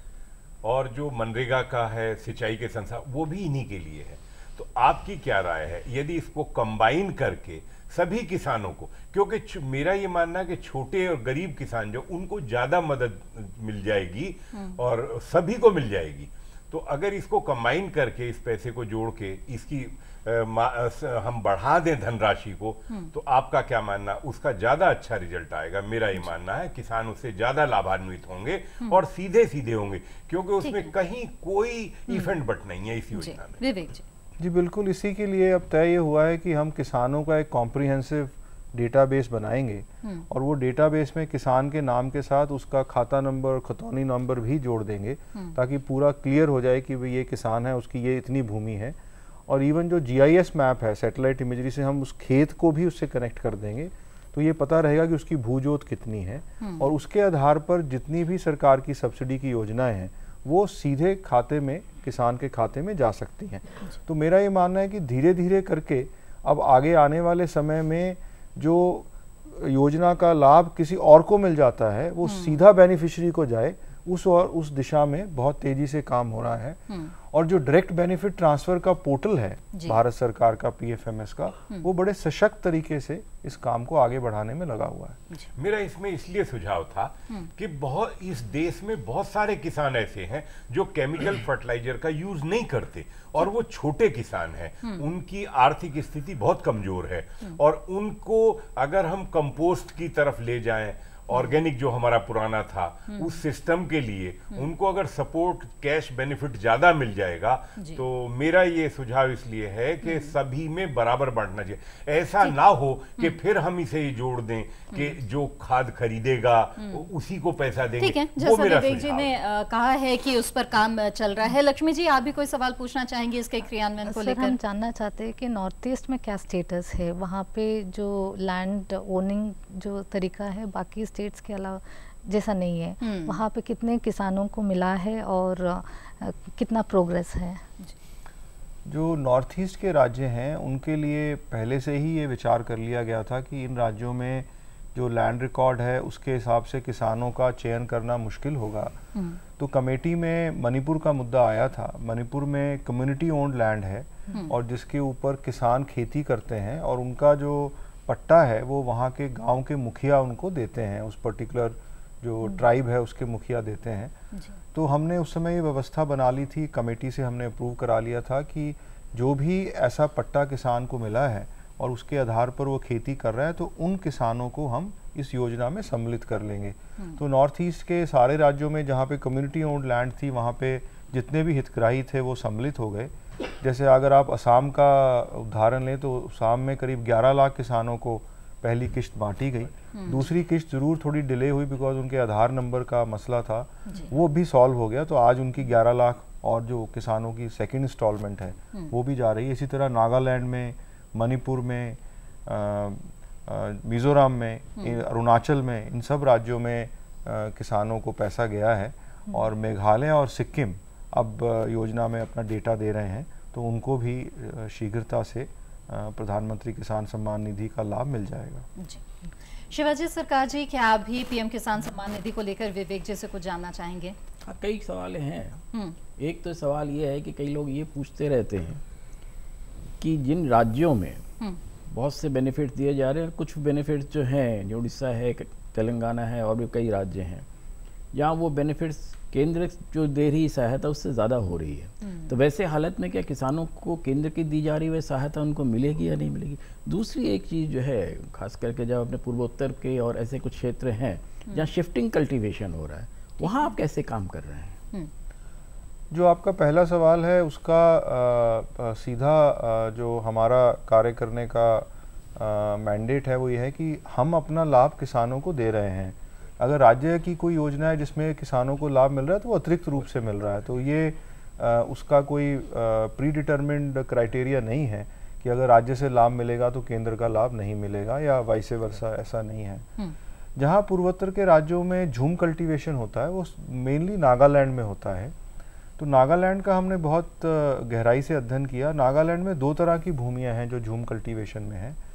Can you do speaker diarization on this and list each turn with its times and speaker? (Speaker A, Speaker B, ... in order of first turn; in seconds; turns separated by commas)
Speaker A: 0.6-33.6, Speaker B: 14.5-14.8, Speaker B: 30.6-30.9, Speaker B: 32.1-32.3, Speaker B: 33.1-34.0, Speaker C: 34.4-85.2, Speaker B: 56.6-56.9, Speaker B: 72.2-72.6, Speaker B: 76.9-77.1, Speaker B: 79.7-80.0, Speaker A: 85.6-119.3, Speaker B: 103.1-103.3, Speaker B: 110.0-110.3, Speaker B: 118.0-124.5, Speaker D: 124.0-137.6, Speaker B: 133.0-133.4, Speaker C: 138.8-148.9, Speaker B: 149.1-149.4, Speaker C: 149.6-164.1, Speaker C: 164.7-218.7, Speaker B: 189.9-190.3, Speaker B: 219.7-224.2, Speaker E: 224.5-225.6, Speaker E: 226.2-228.8, Speaker E: 230.0-231.2, Speaker E: 231.9-237.4, Speaker E: 238.1-254.8, Speaker B: 242.0-242.3, Speaker B: 253.4-253.7, Speaker C: 256.1-279.9, Speaker C: 280.6-285.3, Speaker C: 286.0-292.0